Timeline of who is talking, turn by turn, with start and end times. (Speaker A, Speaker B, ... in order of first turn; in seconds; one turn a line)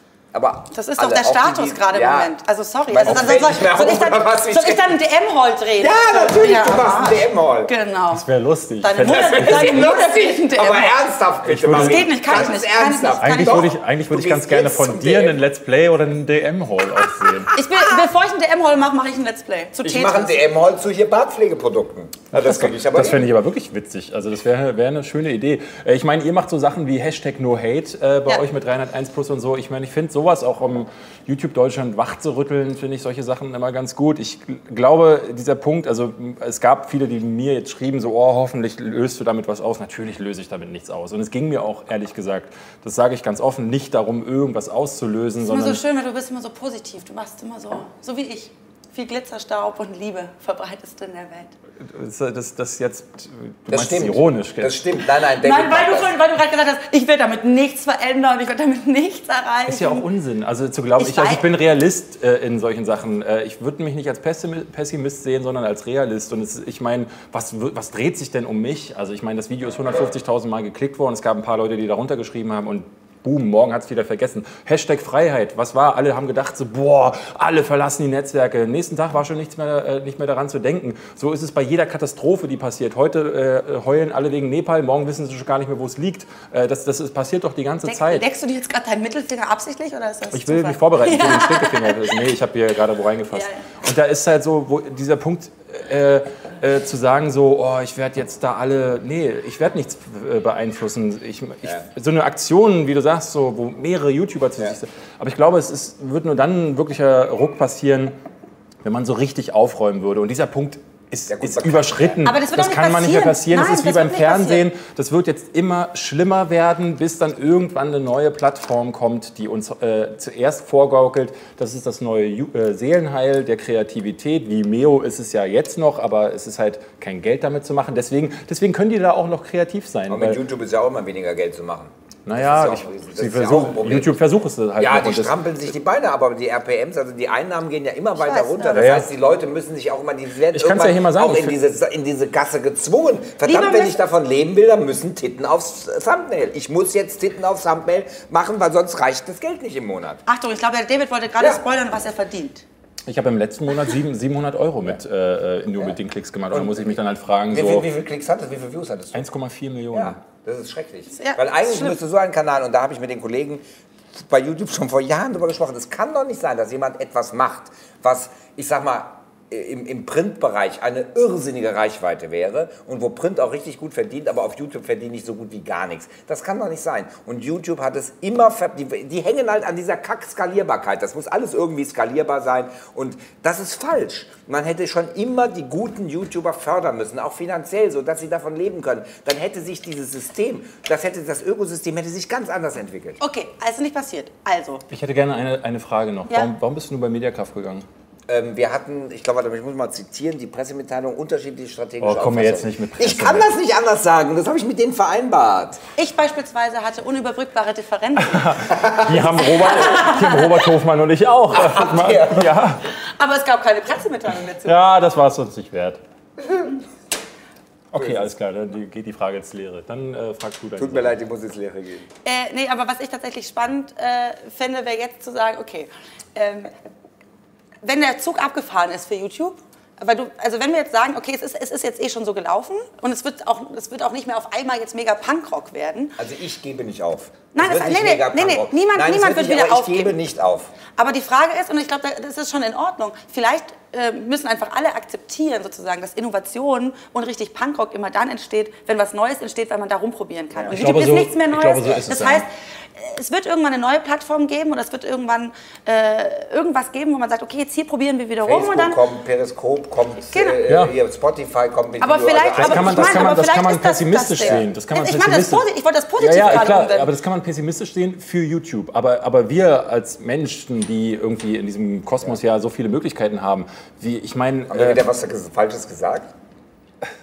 Speaker A: 0.3-2.3
Speaker B: 0.7-8.2
Speaker A: 2.9-5.0
Speaker C: 3.1-3.5
Speaker A: 5.8-7.7
Speaker C: 8.1-9.9
Speaker B: 8.8-11.0
Speaker A: 9.0-15.4
Speaker C: 11.4-12.1
Speaker B: 11.7-13.7
Speaker C: 13.2-17.5
Speaker A: 17.2-17.6
Speaker B: 17.5-20.4
Speaker A: 19.8-23.3
Speaker C: 22.4-45.8
Speaker B: 45.4-51.5
Speaker C: 51.8-54.8
Speaker A: 53.7-56.1
Speaker B: 55.2-60.0
Speaker C: 59.7-88.2
Speaker B: 61.0-61.4
Speaker B: 87.9-92.2
Speaker C: 90.3-108.2
Speaker B: 93.3-93.6
Speaker C: 108.8-130.4
Speaker A: 111.3-112.2
Speaker B: 112.2-114.6
Speaker A: 130.1-134.2
Speaker C: 132.3-135.4
Speaker A: 134.8-150.2
Speaker B: 138.2-138.9
Speaker C: 138.7-139.1
Speaker C: 140.5-141.6
Speaker B: 143.4-144.0
Speaker B: 150.3-152.6
Speaker C: 153.1-157.9
Speaker A: 156.5-157.0
Speaker A: 157.5-159.3
Speaker C: 159.1-160.2
Speaker A: 159.9-163.6
Speaker B: 161.2-162.0
Speaker A: 164.2-193.2
Speaker B: 193.2-194.8
Speaker C: 194.9-197.9
Speaker A: 198.3-205.8
Speaker C: 202.0-203.5
Speaker B: 206.0-210.7
Speaker C: 208.2-212.8
Speaker A: 211.5-212.6
Speaker B: 213.2-214.8
Speaker C: 214.6-216.0
Speaker A: 216.4-216.7
Speaker C: 217.9-221.2
Speaker A: 220.8-222.1
Speaker B: 222.2-226.7
Speaker B: 227.8-236.2
Speaker A: 236.2-240.7
Speaker B: 237.5-240.2
Speaker B: 240.9-259.0
Speaker C: 250.7-252.5
Speaker A: 258.4-263.4
Speaker B: 260.3-260.6
Speaker C: 260.7-260.9
Speaker B: 262.0-267.1
Speaker C: 262.5-265.6
Speaker A: 264.4-264.7
Speaker C: 266.2-275.1
Speaker A: 266.4-266.8
Speaker A: 274.7-276.3